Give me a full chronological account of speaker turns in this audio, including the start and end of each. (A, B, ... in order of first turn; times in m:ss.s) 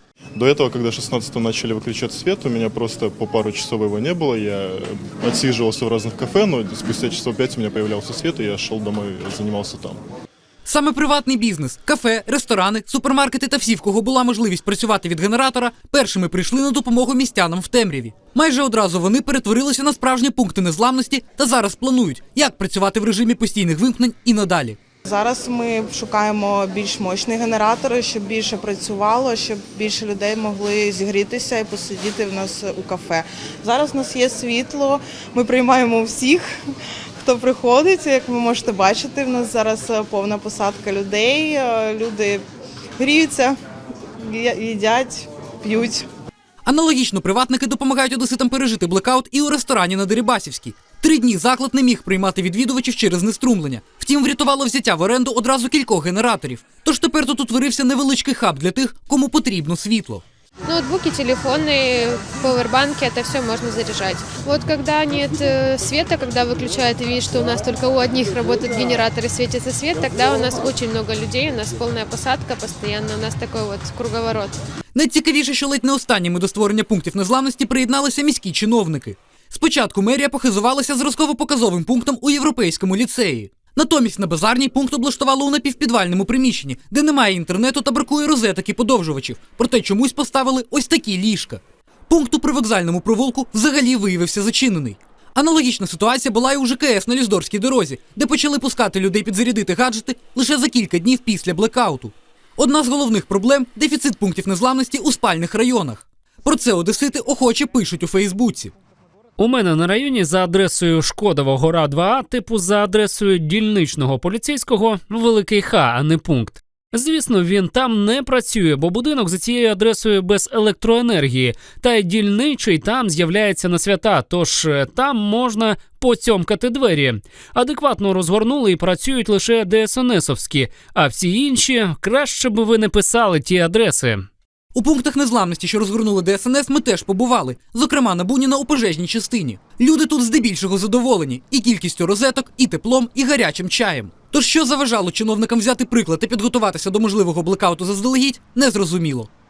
0:00.4-0:10.0 A
0:10.6-0:24.8 B
0:25.0-0:36.5 C
0:37.2-0:42.4 C
0:43.0-0:43.6 C
0:44.2-0:46.1 C
0:46.6-1:00.2 B
1:00.7-1:14.6 D
1:14.9-1:48.7 B
1:49.4-2:14.3 E
2:14.7-2:29.3 B